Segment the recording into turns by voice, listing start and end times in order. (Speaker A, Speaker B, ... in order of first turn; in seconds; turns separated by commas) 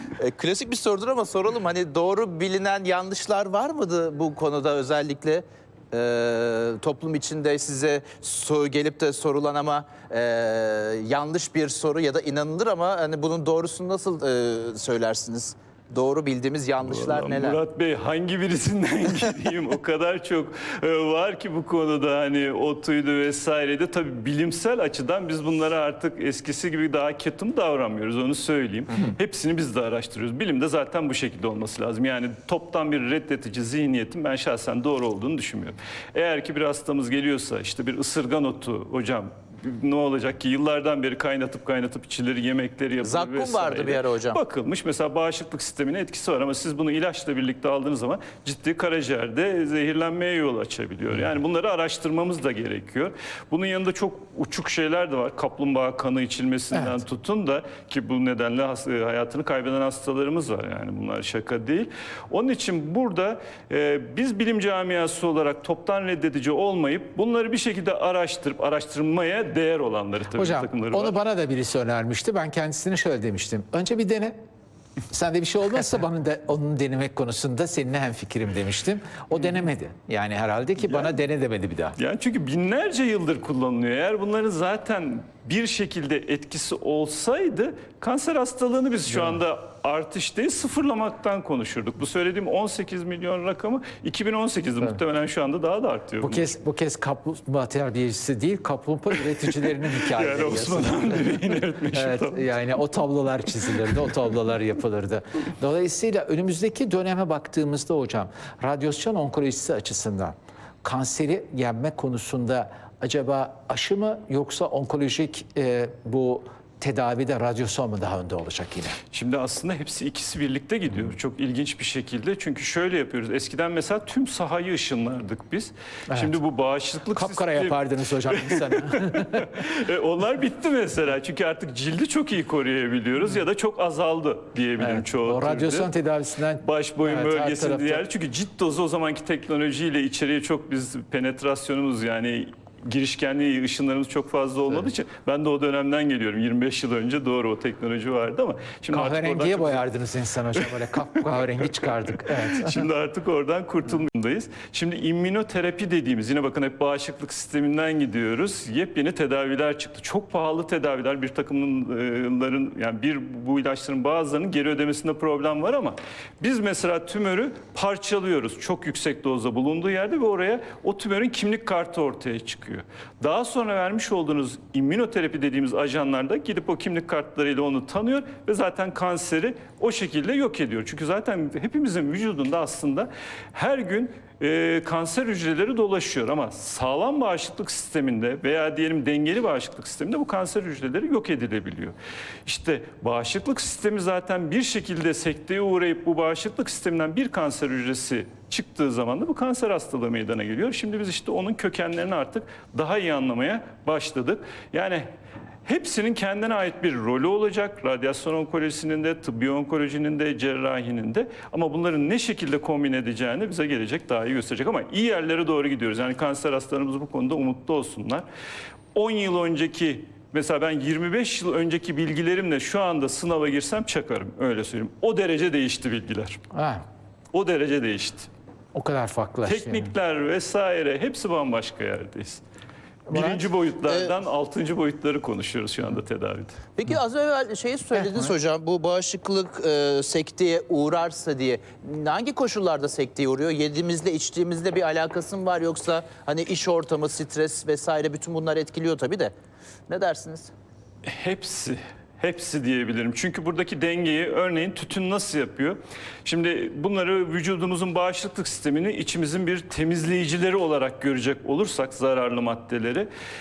Speaker A: 0.2-17.6, Speaker B: 16.8-71.1, Speaker A: 43.0-44.4, Speaker C: 56.7-57.0, Speaker C: 70.3-74.3, Speaker C: 75.1-82.0, Speaker B: 80.8-81.1, Speaker B: 82.0-96.5, Speaker C: 89.1-89.4, Speaker C: 96.2-119.0, Speaker B: 99.5-102.5, Speaker B: 119.1-135.9, Speaker C: 127.1-129.7, Speaker C: 134.8-138.0, Speaker B: 136.6-149.9, Speaker C: 148.9-152.9, Speaker B: 150.6-205.1, Speaker B: 205.6-218.2, Speaker B: 218.9-226.4, Speaker C: 226.5-226.8, Speaker B: 227.3-228.3, Speaker C: 228.7-229.9, Speaker B: 229.4-232.4, Speaker C: 233.1-233.4, Speaker B: 233.1-236.6, Speaker A: 236.8-249.3, Speaker C: 238.0-238.3, Speaker A: 249.9-250.5, Speaker B: 251.0-263.1